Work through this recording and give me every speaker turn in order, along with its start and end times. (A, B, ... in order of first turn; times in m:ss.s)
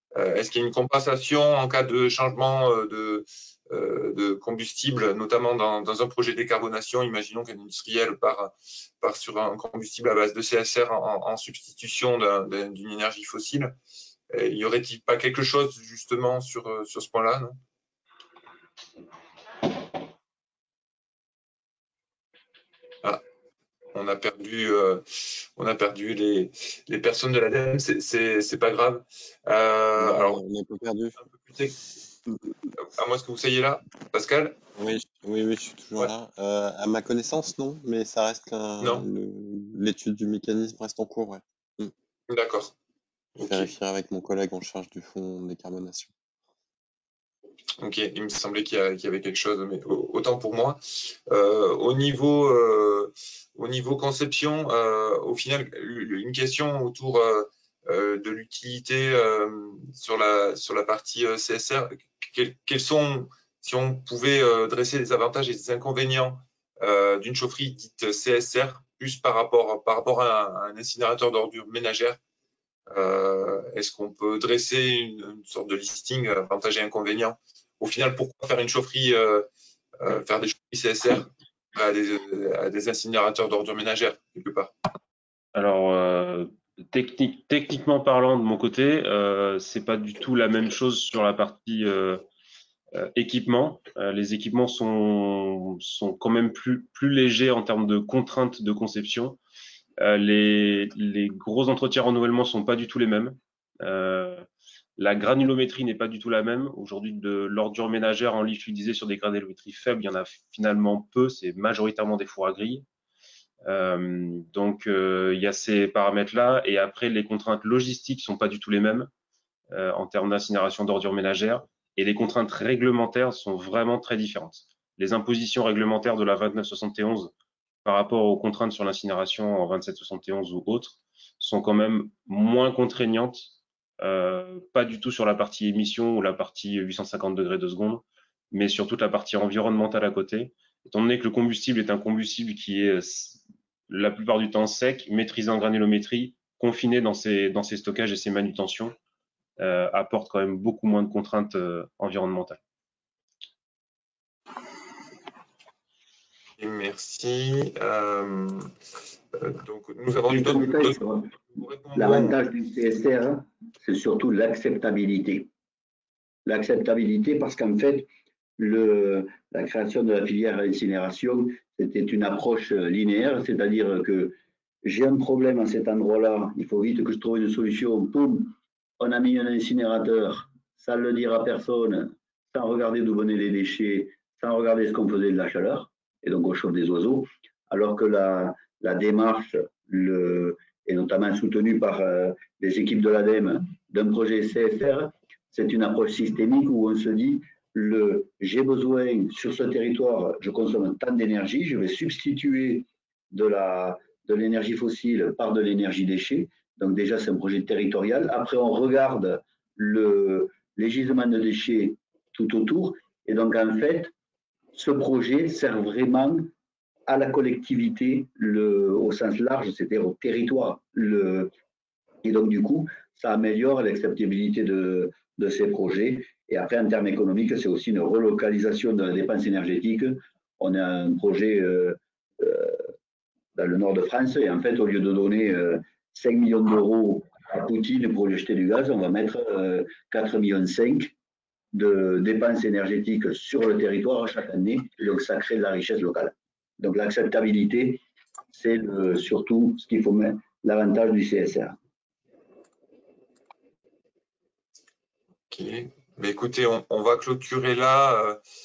0:00.1-0:13.7 A
0:14.3-0:17.6 A
0:23.9-0:30.4 A
0:30.0-0:31.1 B
0:31.2-0:31.8 A
0:32.9-0:34.6 A
0:34.8-0:41.9 B
0:38.8-0:39.0 A
0:42.3-0:42.7 A
0:43.4-0:43.7 A
0:43.4-0:46.1 B
0:47.8-1:12.2 A
1:12.9-1:19.5 A
1:20.0-1:24.7 A
1:25.5-1:32.2 C
1:32.9-1:39.4 C
1:40.0-1:44.4 C
1:45.0-1:52.8 C
1:53.6-1:59.1 C
1:59.7-2:07.3 C
2:07.8-2:29.0 C
2:29.6-2:32.6 C
2:36.6-2:38.7 A
2:39.3-2:41.0 A
2:40.3-2:41.3 D
2:41.5-2:42.4 A
2:41.9-2:45.5 D
2:46.4-2:48.1 D
2:48.6-3:34.1 D
3:34.7-3:36.5 D
3:37.1-3:41.5 D
3:42.2-3:52.9 D
3:53.6-4:01.1 D
4:01.7-4:11.8 D
4:15.5-4:18.4 A